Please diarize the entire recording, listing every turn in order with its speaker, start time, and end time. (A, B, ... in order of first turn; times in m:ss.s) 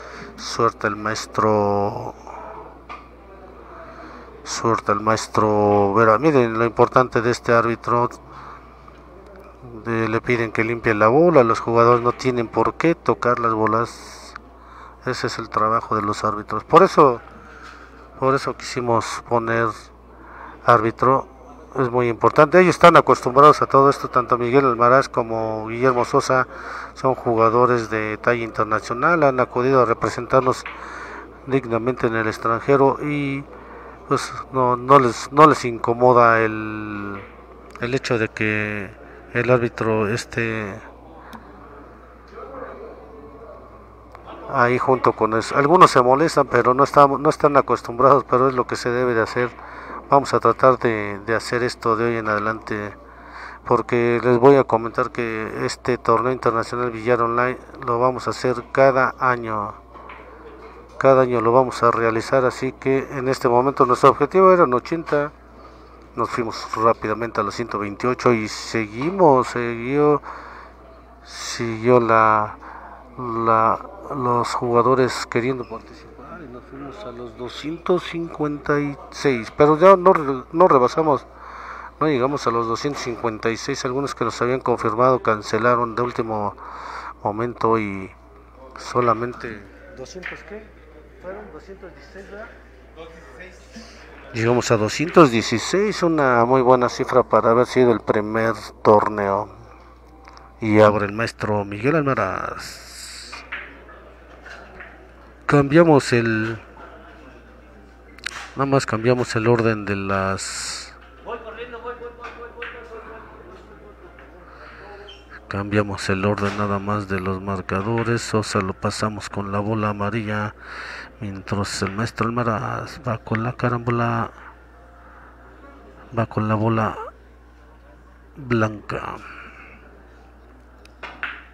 0:00.4-0:02.2 A
0:04.4-0:08.2 A
0:09.6-0:14.4 A
0:15.0-0:17.2 A
0:18.2-0:19.9 A
0:20.6-0:30.7 A
0:31.4-0:33.5 A
0:34.1-0:37.3 A
0:37.8-0:40.9 A
0:44.5-0:49.5 A
0:50.1-0:53.0 A
0:53.6-0:59.8 A
1:01.0-1:05.3 A
1:06.1-1:10.2 A
1:11.2-1:12.6 A
1:13.1-1:21.2 A
1:22.0-1:26.6 A
1:27.2-1:28.1 A
1:28.8-1:32.5 A
1:34.3-1:39.5 A
1:40.6-1:43.4 A
1:45.5-1:46.6 A
1:48.5-1:50.9 A
1:55.5-2:00.5 A
2:01.2-2:04.3 A
2:06.1-2:07.0 A
2:08.4-2:09.2 A